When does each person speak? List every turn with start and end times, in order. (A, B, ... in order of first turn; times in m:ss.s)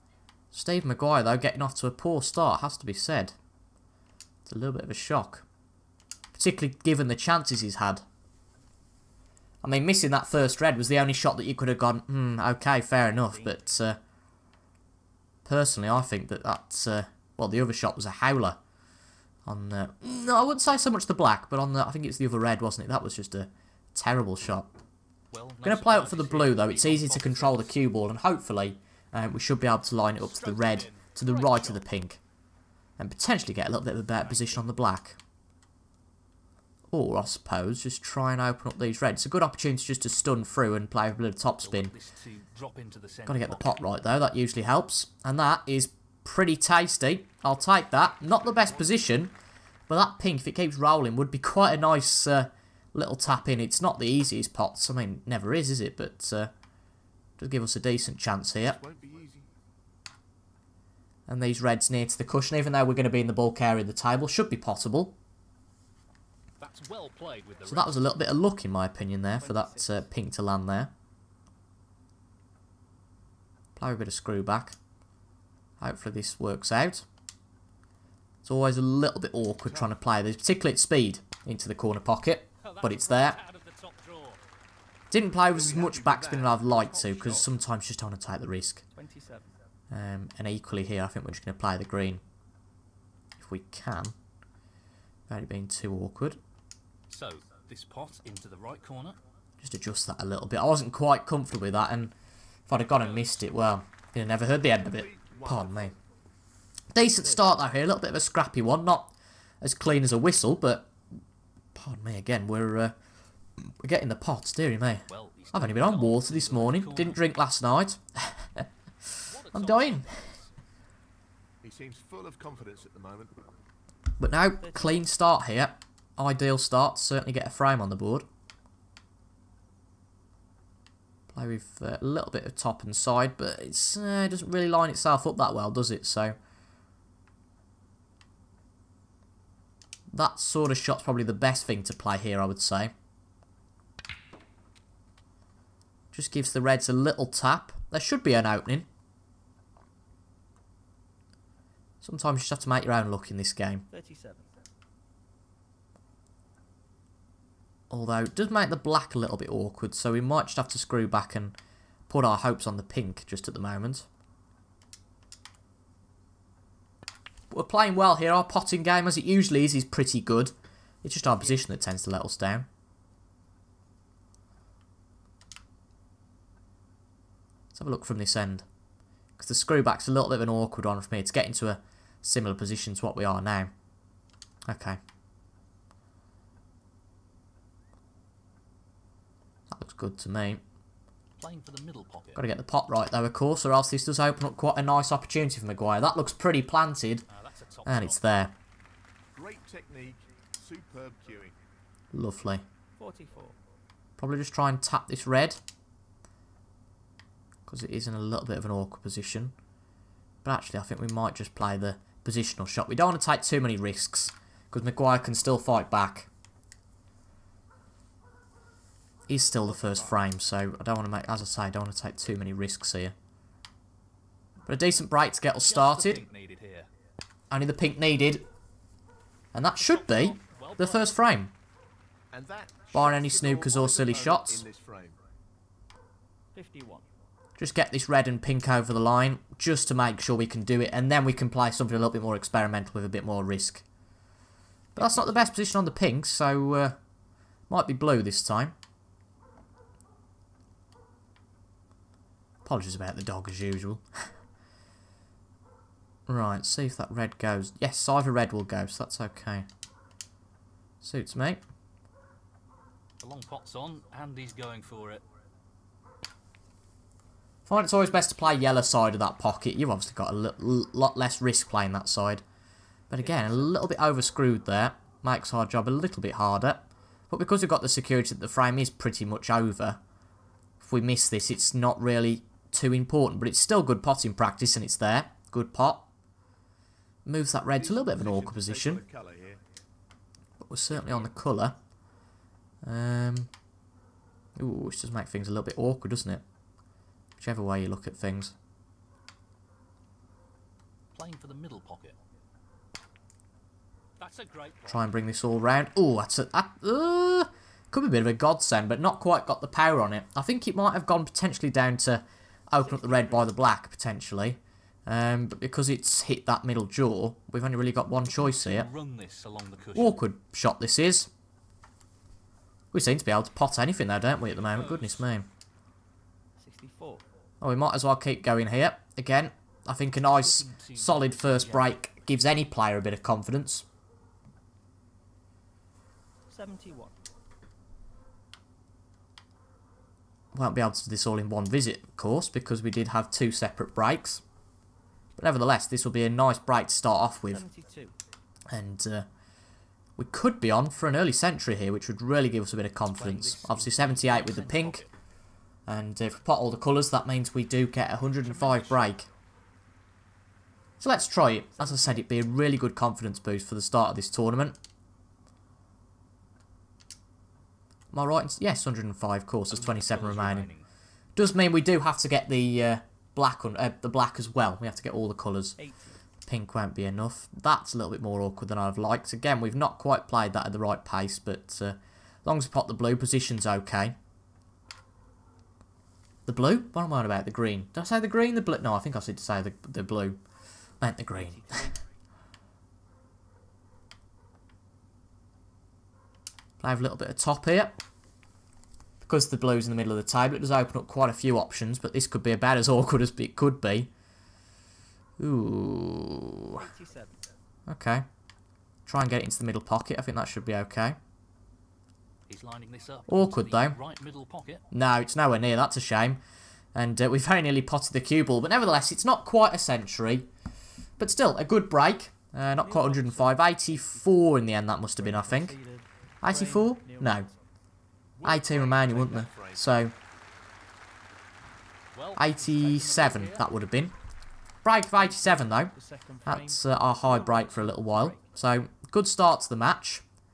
0:00.5-0:03.4 A
0:04.5-0:05.4 A
0:06.4-0:08.0 A
0:09.6-0:14.0 A
0:13.0-0:13.6 B
0:15.4-0:18.6 A
0:19.5-0:24.8 A
0:25.3-0:27.8 C
0:25.6-0:32.2 A
0:30.2-0:31.8 C
0:33.0-0:35.2 A
0:34.2-0:34.6 C
0:36.9-0:41.9 A
0:41.6-0:43.8 C
0:43.3-0:49.3 A
0:48.2-0:49.2 D
0:49.9-0:56.5 A
0:57.4-0:58.8 A
0:58.6-0:59.5 D
1:01.3-1:05.2 A
1:06.6-1:08.3 C
1:07.7-1:10.9 A
1:09.4-1:10.1 B
1:13.8-1:14.8 A
1:15.8-1:17.1 A
1:18.4-1:23.4 A
1:22.6-1:24.4 C
1:25.1-1:28.8 A
1:25.5-1:27.5 D
1:29.0-1:29.6 B
1:29.9-1:32.2 A
1:33.4-1:34.1 A
1:35.3-1:36.4 A
1:37.1-1:39.2 C
1:39.6-1:42.1 A
1:42.7-1:46.0 A
1:42.7-1:43.6 C
1:44.8-1:46.0 D
1:46.9-1:50.9 A
1:47.2-1:47.5 B
1:51.8-1:52.9 A
1:53.6-2:00.2 A
1:55.1-1:57.2 C
1:59.3-2:00.5 C
2:01.6-2:03.5 D
2:04.2-2:08.3 A
2:04.6-2:05.1 B
2:11.3-2:16.4 A
2:20.1-2:22.9 A
2:26.1-2:28.9 A
2:32.0-2:33.8 A
2:33.9-2:34.6 B
2:37.9-2:41.6 A
2:42.1-2:44.1 A
2:47.5-2:52.7 A
2:51.2-2:51.7 B
2:57.7-2:58.6 A
2:59.4-3:03.7 A
3:04.7-3:05.0 A
3:09.7-3:10.6 A
3:11.4-3:12.4 C
3:12.4-3:17.3 A
3:17.3-3:18.2 C
3:17.9-3:18.5 A
3:19.4-3:21.6 D
3:22.1-3:22.6 A
3:23.0-3:23.6 B
3:24.2-3:25.6 A
3:27.7-3:29.6 A
3:30.4-3:36.3 A
3:39.3-3:43.2 A
3:44.7-3:46.2 A
3:45.6-3:46.9 C
3:47.5-3:48.4 A
3:49.5-3:51.5 A
3:49.8-3:51.2 C
3:52.3-3:55.2 D
3:52.9-3:54.6 A
3:56.5-3:57.0 B
3:57.6-4:03.8 A
4:05.0-4:07.0 A
4:05.0-4:05.5 C
4:07.7-4:08.8 A
4:12.6-4:14.0 A
4:16.3-4:19.7 A
4:21.0-4:21.6 A
4:23.2-4:25.2 C
4:27.7-4:32.4 A
4:33.1-4:40.0 A
4:33.2-4:33.8 B
4:40.8-4:46.1 A
4:47.3-4:49.0 A
4:47.7-4:49.6 D
4:50.6-4:51.8 A
4:52.8-4:53.5 A
4:54.6-4:56.4 A
4:57.4-4:58.5 A
5:01.2-5:02.2 C
5:04.2-5:05.1 C
5:04.9-5:18.9 A
5:12.8-5:13.6 B
5:18.3-5:20.2 C
5:20.0-5:21.3 A
5:22.9-5:25.5 A
5:24.5-5:25.3 C
5:26.6-5:27.2 B
5:27.6-5:33.9 A
5:30.2-5:32.0 C
5:36.5-5:37.2 B
5:40.5-5:44.4 A
5:45.4-5:47.6 A
5:47.5-5:48.2 B
5:48.7-5:49.3 A
5:50.2-5:55.0 A
5:53.2-5:55.1 C
5:55.9-5:59.3 A
5:58.7-5:59.1 B
6:01.0-6:04.8 A
6:01.8-6:02.3 B
6:08.1-6:10.7 A
6:09.7-6:10.9 C
6:11.4-6:15.8 A
6:15.8-6:16.2 B
6:16.5-6:24.2 A
6:26.5-6:30.4 A
6:31.0-6:31.9 A
6:31.3-6:32.0 B
6:36.8-6:38.0 A
6:39.2-6:44.1 A
6:45.4-6:46.8 A
6:46.7-6:47.4 B
6:47.9-6:48.3 A
6:49.1-6:51.2 A
6:52.5-6:54.9 C
6:53.3-6:54.0 A
6:54.9-6:56.4 A
6:57.0-7:00.5 A
7:01.2-7:05.8 A
7:02.6-7:04.4 B
7:05.2-7:07.6 B
7:06.4-7:07.5 A
7:08.4-7:10.0 D
7:08.4-7:10.1 A
7:12.1-7:13.7 C
7:12.4-7:14.1 A
7:14.8-7:16.0 A
7:15.2-7:18.5 B
7:16.5-7:20.2 A